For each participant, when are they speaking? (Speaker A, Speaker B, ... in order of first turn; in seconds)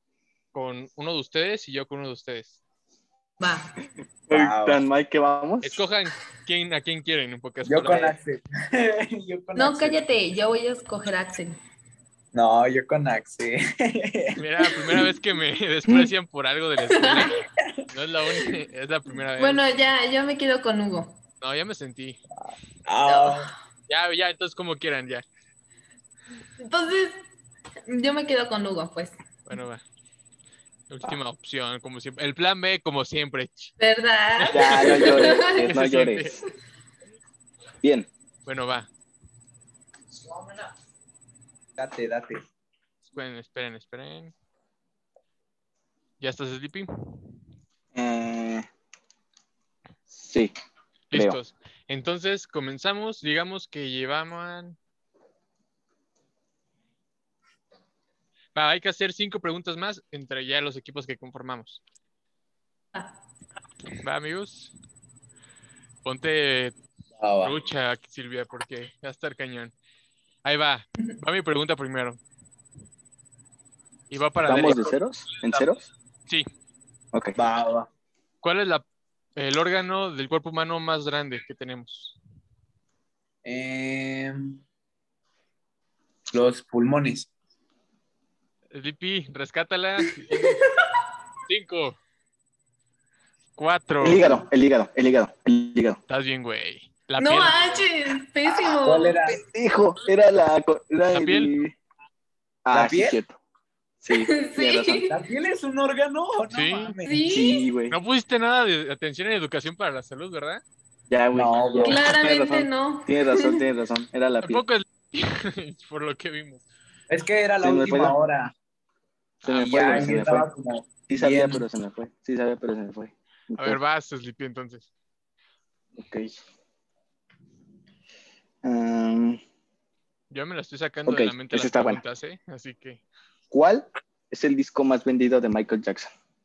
Speaker A: 0.5-2.6, 5.6-8.2, 14.4-19.6, 21.4-22.2, 23.9-25.2, 29.5-29.8, 30.9-33.7, 34.4-36.4, 38.5-38.9, 43.1-44.3, 46.2-47.2, 51.1-54.8, 58.5-61.8, 64.0-64.7, 66.0-66.8, 67.4-69.7, 70.4-72.2, 74.1-75.7, 78.4-78.8, 79.4-82.2, 88.7-90.6, 91.5-92.0, 93.6-94.4, 96.1-97.8, 101.1-101.5, 106.5-107.0, 107.9-110.6, 114.4-116.6, 119.4-120.1, 123.6-124.9, 130.3-133.0
Speaker B: 3.4-3.8, 9.6-11.6, 16.9-17.3, 19.4-21.2, 23.1-23.5, 26.6-27.2, 27.9-29.2, 33.8-35.7, 90.3-90.9, 97.2-99.2, 104.1-105.2, 107.0-107.7, 111.8-113.7
Speaker C: 4.3-5.8, 34.5-36.4, 37.8-38.1, 47.9-48.7, 50.1-50.5, 74.5-75.9, 94.0-96.0, 99.3-101.8, 102.7-103.4, 104.0-105.0, 107.3-108.0, 111.1-114.6, 117.6-118.2, 119.5-120.5, 121.1-123.8, 126.0-126.3, 128.6-129.4, 131.1-132.0, 133.5-136.1
Speaker D: 4.3-4.8, 7.7-10.0, 12.3-14.4, 22.9-23.5, 41.8-42.4, 67.2-67.5, 77.4-77.9, 83.4-84.6, 86.3-87.3, 98.6-99.4, 102.7-103.2, 105.0-107.2, 111.3-112.0, 117.1-118.5, 119.6-121.7